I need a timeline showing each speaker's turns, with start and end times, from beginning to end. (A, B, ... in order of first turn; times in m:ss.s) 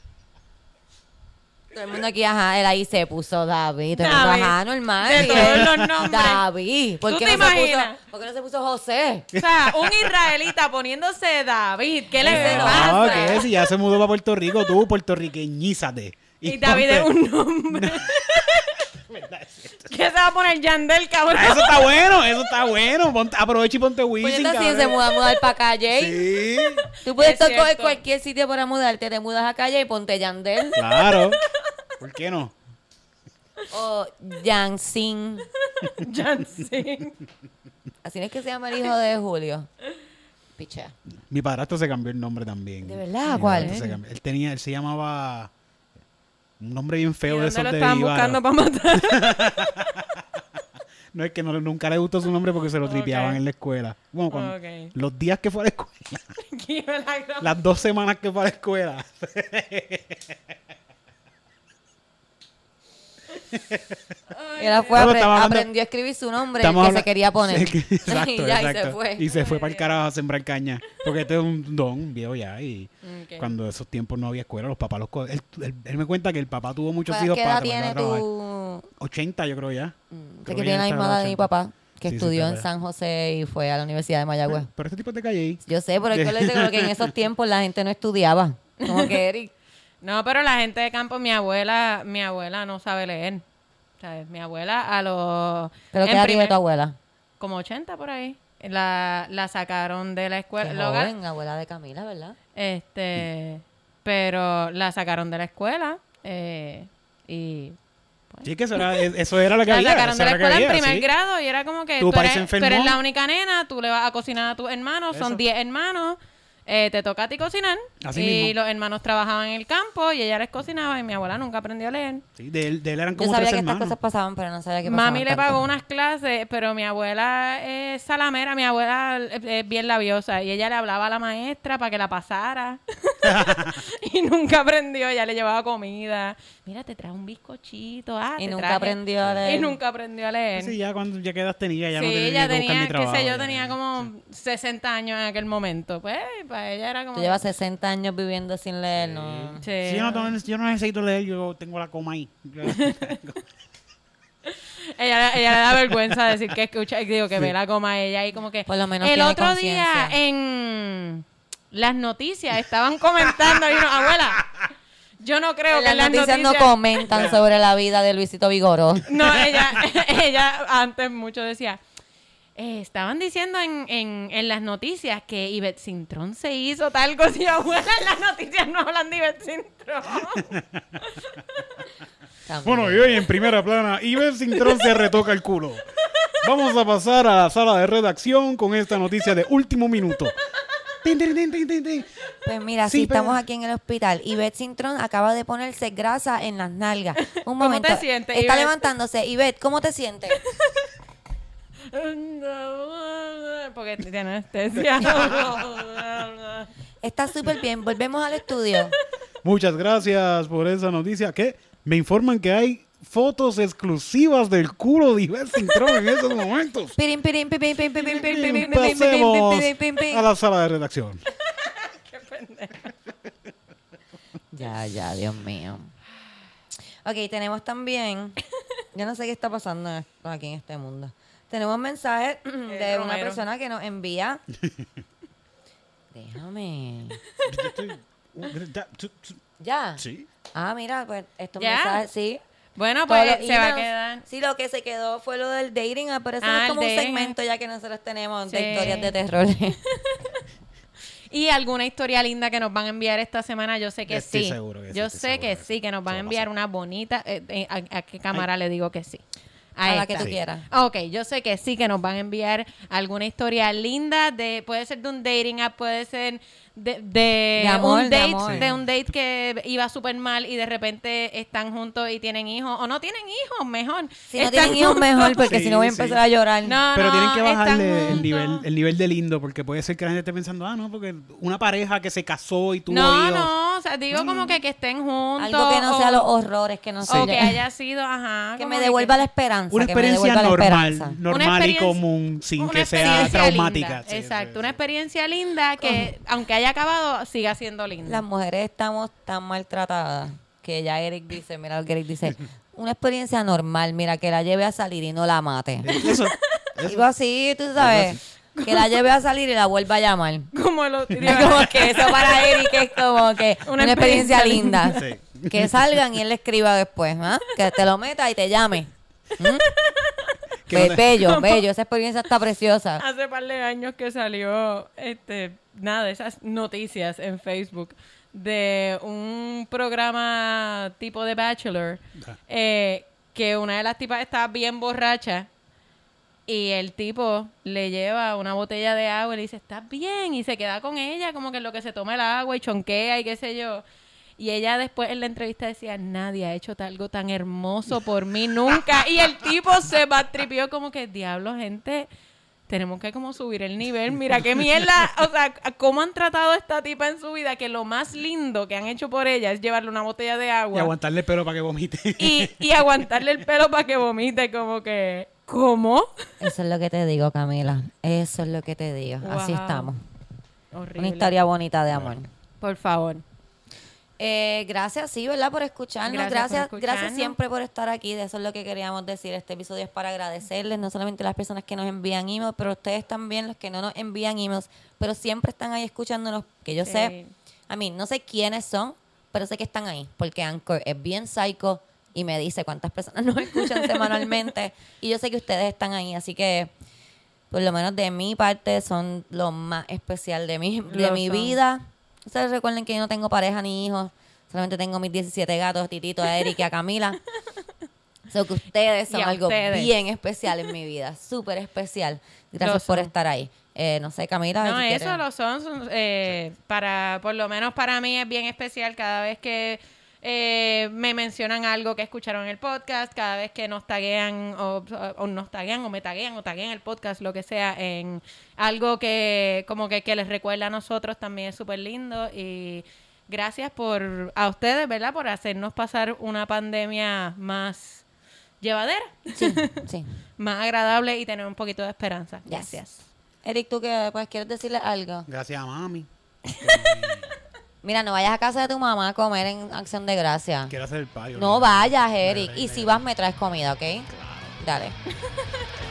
0:01.7-0:09.3 A
0:04.0-0:06.4 B
0:05.1-0:05.9 C
0:07.0-0:08.0 B
0:09.3-0:10.3 C
0:09.4-0:13.5 B
0:12.2-0:13.4 A
0:12.2-0:17.1 C
0:16.4-0:18.7 B
0:17.7-0:19.9 C
0:19.8-0:22.2 B
0:21.3-0:25.0 C
0:24.2-0:26.2 A
0:25.9-0:26.8 C
0:27.0-0:30.8 A
0:27.0-0:28.0 B
0:30.8-0:31.4 C
0:32.0-0:32.5 C
0:33.7-0:35.5 A
0:35.7-0:37.2 B
0:38.0-0:39.7 A
0:40.6-0:40.9 A
0:41.3-0:45.5 C
0:42.8-0:43.8 A
0:43.3-0:44.0 B
0:46.6-0:48.4 C
0:47.3-0:50.0 B
0:48.9-0:50.2 C
0:51.1-0:56.3 C
0:52.8-0:53.4 B
0:54.3-0:54.9 B
0:56.4-0:57.5 B
0:57.4-1:00.4 C
1:03.7-1:03.9 C
1:04.3-1:05.1 B
1:04.6-1:09.3 A
1:04.9-1:05.7 C
1:06.6-1:18.2 C
1:09.3-1:09.9 B
1:13.0-1:13.5 B
1:17.1-1:18.9 A
1:19.0-1:19.9 C
1:20.1-1:24.7 A
1:20.4-1:21.5 C
1:22.0-1:22.7 C
1:24.5-1:27.1 C
1:25.6-1:29.5 A
1:28.8-1:29.2 B
1:30.0-1:33.4 B
1:34.0-1:36.6 B
1:35.9-1:37.0 A
1:37.4-1:41.1 B
1:40.6-1:42.4 A
1:42.5-1:47.8 B
1:48.3-1:49.0 B
1:48.4-1:51.1 C
1:49.6-2:02.2 B
1:52.0-1:53.0 C
1:55.1-1:55.4 C
1:58.0-1:58.5 C
2:02.4-2:03.9 C
2:03.1-2:05.6 A
2:04.8-2:20.8 B
2:13.2-2:13.8 C
2:18.4-2:19.7 A
2:19.2-2:19.6 C
2:20.6-2:24.1 C
2:21.9-2:27.4 B
2:27.1-2:29.6 A
2:29.0-2:33.4 C
2:29.6-2:30.3 B
2:32.6-2:33.4 B
2:34.4-2:44.7 B
2:38.6-2:40.2 A
2:45.2-2:47.0 B
2:45.7-2:49.1 A
2:47.1-2:47.4 C
2:49.1-2:51.8 B
2:49.2-2:49.8 C
2:52.6-3:01.4 B
3:00.5-3:01.0 C
3:02.5-3:03.3 A
3:02.6-3:05.8 C
3:04.6-3:05.1 B
3:06.4-3:10.3 C
3:11.0-3:12.1 C
3:12.4-3:20.4 A
3:12.8-3:13.4 C
3:17.2-3:18.9 B
3:21.8-3:26.7 B
3:25.0-3:25.6 C
3:27.0-3:28.9 A
3:29.4-3:36.9 C
3:37.0-3:40.2 A
3:38.0-3:39.0 B
3:38.2-3:41.2 C
3:41.4-3:43.1 B
3:44.5-3:45.9 A
3:47.0-3:48.4 A
3:48.9-3:54.4 A
3:52.7-3:53.4 B
3:56.1-3:57.2 A
3:57.4-3:59.4 C
3:59.6-4:00.0 A
4:00.0-4:00.3 C
4:00.5-4:02.4 A
4:01.6-4:02.1 B
4:02.8-4:04.2 B
4:03.1-4:09.8 A
4:06.4-4:07.3 B
4:08.5-4:09.1 B
4:10.1-4:10.4 B
4:11.3-4:19.2 B
4:14.1-4:16.5 C
4:19.8-4:35.6 B
4:19.8-4:20.6 A
4:27.6-4:28.7 A
4:28.4-4:28.7 C
4:34.3-4:36.8 A
4:35.4-4:36.2 C
4:36.6-4:38.6 B
4:36.9-4:43.5 C
4:42.9-4:46.3 B
4:44.1-4:44.6 C
4:45.4-4:47.6 A
4:47.0-4:49.1 B
4:47.1-4:47.3 C
4:48.6-4:51.2 A
4:49.7-4:54.8 C
4:51.3-4:52.0 B
4:52.6-4:58.2 B
4:55.8-4:56.1 A
4:58.0-5:06.1 A
5:05.8-5:07.0 C
5:06.8-5:10.5 A
5:07.8-5:08.2 C
5:08.5-5:09.1 B
5:10.5-5:13.0 B
5:11.2-5:19.7 A
5:11.3-5:11.6 C
5:13.6-5:15.1 B
5:14.9-5:15.7 C
5:19.7-5:20.3 B
5:20.6-5:21.1 C
5:20.7-5:23.0 A
5:21.0-5:21.6 B
5:23.0-5:35.5 B
5:36.5-5:43.8 B
5:44.4-5:52.1 B
5:52.7-6:00.9 B
6:00.7-6:02.6 C
6:02.2-6:06.3 B
6:06.4-6:10.0 A
6:09.2-6:09.9 B
6:10.7-6:11.3 B
6:11.0-6:12.3 A
6:12.6-6:13.2 B
6:14.2-6:27.1 A
6:16.0-6:17.4 B
6:26.8-6:27.3 B
6:27.7-6:36.7 A
6:33.9-6:34.1 B
6:37.5-6:47.2 A
6:40.9-6:41.6 B
6:48.3-6:55.2 A
6:49.1-6:49.9 B
6:52.6-6:53.1 B
6:54.6-7:18.0 B
7:18.6-7:19.8 B
7:19.3-7:20.1 A
7:20.4-7:23.0 B
7:22.4-7:22.7 A
7:23.4-7:25.3 A
7:25.3-7:26.1 C
7:26.6-7:27.3 C
7:27.8-7:30.7 A
7:30.7-7:33.0 C
7:31.4-7:34.1 A
7:34.1-7:34.6 C
7:34.6-7:34.9 A
7:35.2-7:35.7 B